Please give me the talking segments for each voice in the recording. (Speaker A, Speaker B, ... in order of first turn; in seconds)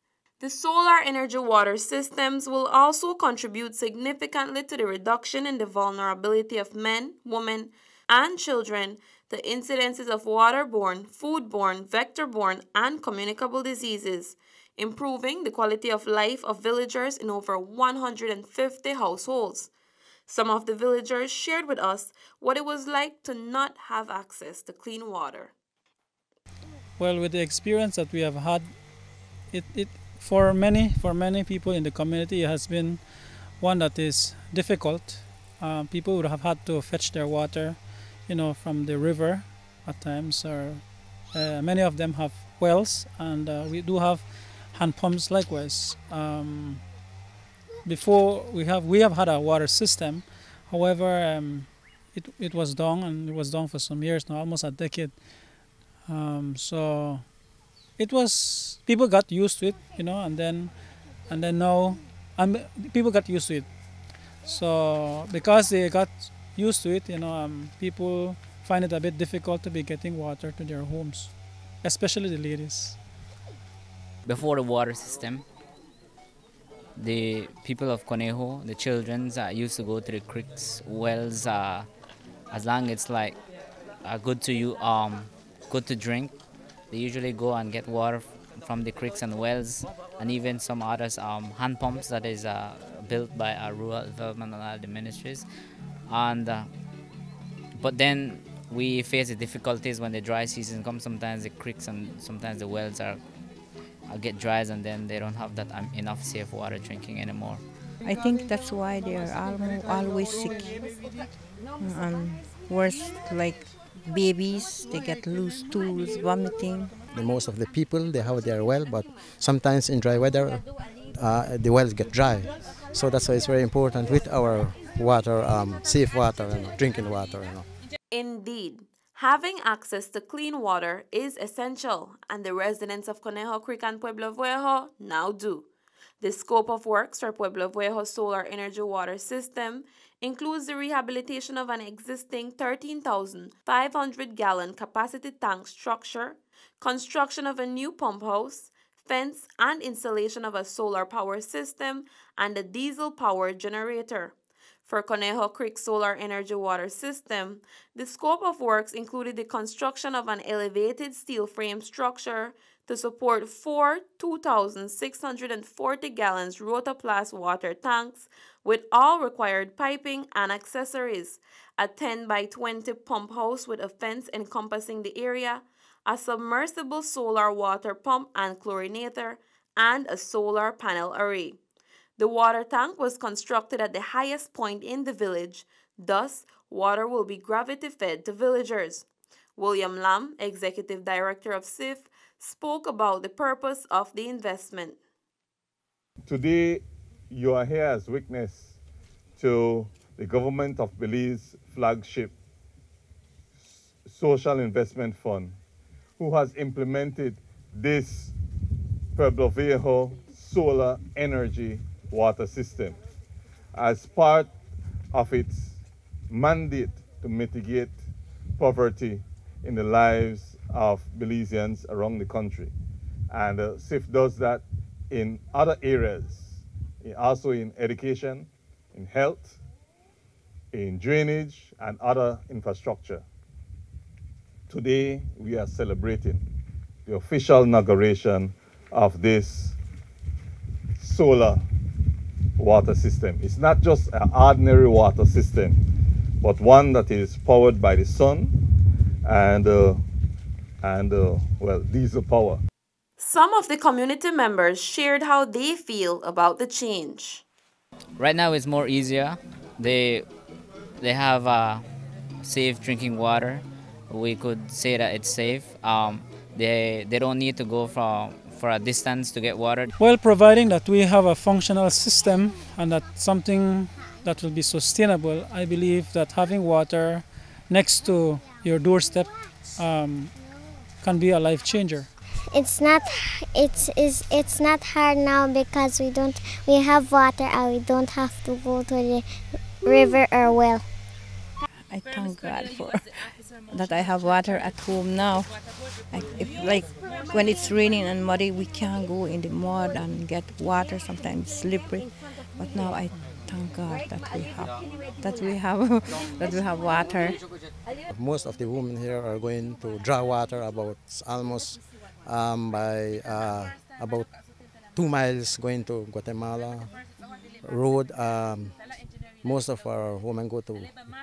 Speaker A: 0.4-19.7, 20.3-25.5, 128.1-135.7, 136.2-154.3, 154.8-181.6, 182.2-189.0, 189.6-195.0, 253.2-257.4
Speaker B: 27.0-28.7, 29.5-46.8, 47.8-55.2, 56.0-57.3, 58.0-60.7, 61.3-63.7, 64.4-73.0, 270.0-280.3, 281.0-282.1
Speaker C: 74.2-75.4, 77.0-81.9, 82.5-83.4, 84.0-86.3, 86.9-95.5, 96.1-96.7, 97.8-103.2, 104.1-107.6, 258.2-260.3, 261.0-261.8, 262.4-269.9
Speaker D: 108.0-110.7, 111.8-116.9, 291.9-293.0, 293.7-295.5, 296.1-307.4
Speaker E: 117.1-127.7, 308.1-314.3, 314.9-316.9, 317.6-318.8, 319.4-321.0
Speaker F: 196.2-198.8, 199.4-202.3, 203.6-205.6, 206.2-208.3, 209.1-213.0, 213.7-214.5, 215.1-218.0, 218.6-222.7, 223.3-229.6, 230.7-233.2, 234.7-236.4, 237.1-239.8, 241.0-241.6, 242.6-245.9, 246.4-248.6, 249.2-250.0, 250.8-252.6
Speaker G: 282.5-289.3, 289.8-290.8